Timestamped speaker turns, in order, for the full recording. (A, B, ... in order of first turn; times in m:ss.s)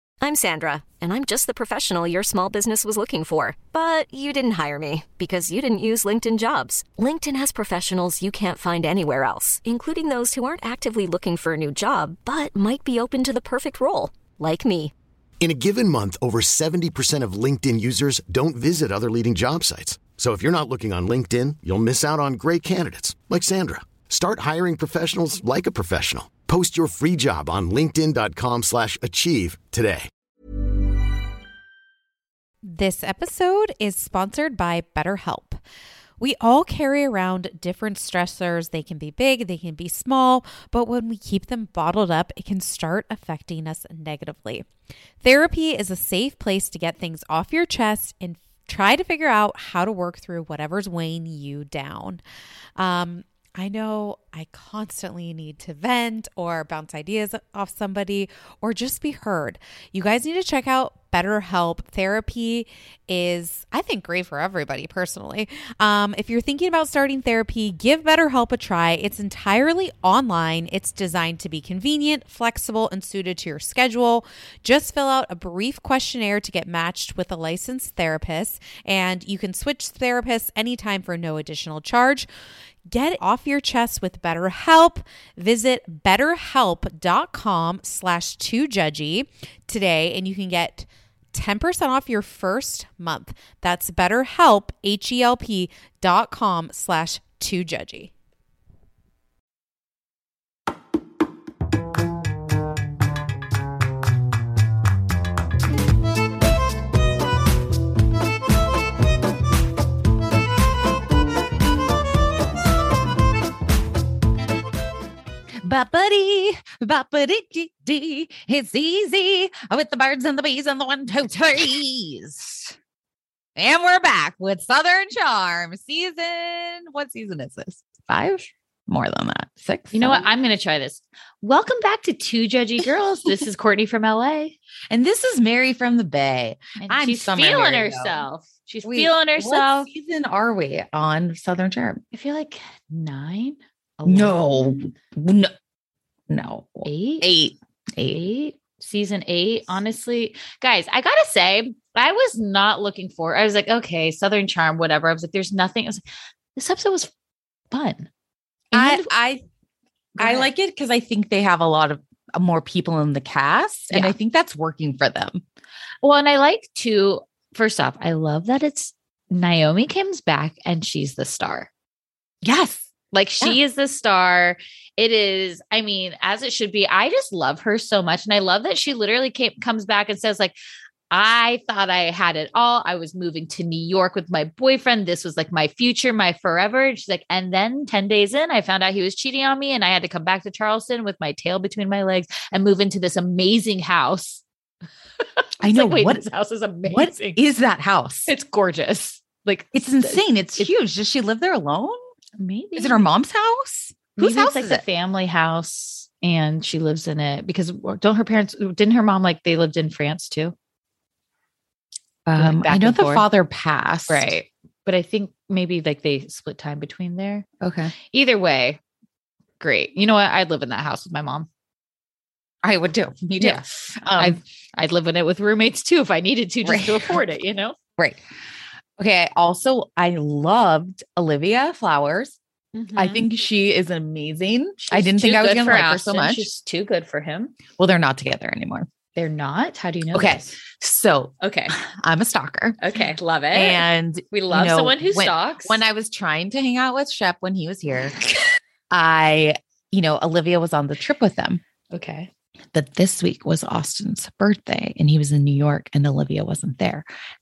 0:00.2-0:14.9 A
0:15.4-0:30.1 B
0:32.6-0:35.6 C
0:36.2-0:44.6 C
0:45.2-0:52.2 C
0:52.8-1:22.3 C
1:22.9-1:38.1 C
1:55.6-2:02.8 D
2:03.6-2:10.3 D
2:09.9-2:14.6 E
2:14.9-2:18.2 D
2:16.8-2:19.9 E
2:18.8-2:22.0 D
2:22.1-2:24.4 E
2:24.1-2:25.5 D
2:26.3-2:28.2 D
2:26.8-2:27.3 E
2:28.1-2:36.0 E
2:36.6-2:37.1 E
2:37.7-2:38.1 E
2:38.7-2:39.1 E
2:38.7-2:39.4 D
2:40.2-2:40.5 E
2:40.2-2:45.4 D
2:43.9-2:44.2 E
2:46.0-2:51.7 E
2:52.4-2:52.9 D
2:53.1-3:00.6 E
3:01.1-3:14.4 E
3:15.6-3:17.4 E
3:15.6-3:16.3 D
3:16.9-3:18.3 D
3:18.3-3:20.7 E
3:19.7-3:22.0 D
3:22.4-3:23.1 E
3:22.8-3:24.8 D
3:24.2-3:30.6 E
3:32.3-3:34.3 D
3:32.4-3:33.3 E
3:34.1-3:37.5 E
3:37.6-3:37.9 D
3:38.1-3:38.8 E
3:39.6-3:41.5 E
3:42.6-3:44.4 D
3:44.2-3:47.8 E
3:46.6-3:47.2 D
3:49.0-3:52.4 D
3:52.8-3:53.2 E
3:53.0-3:56.5 D
3:54.9-3:57.6 E
3:57.8-3:58.9 D
3:59.2-4:00.5 E
4:00.1-4:02.8 D
4:01.4-4:01.8 E
4:02.8-4:05.8 E
4:03.5-4:08.2 D
4:08.9-4:11.6 D
4:11.9-4:12.3 E
4:12.7-4:17.1 D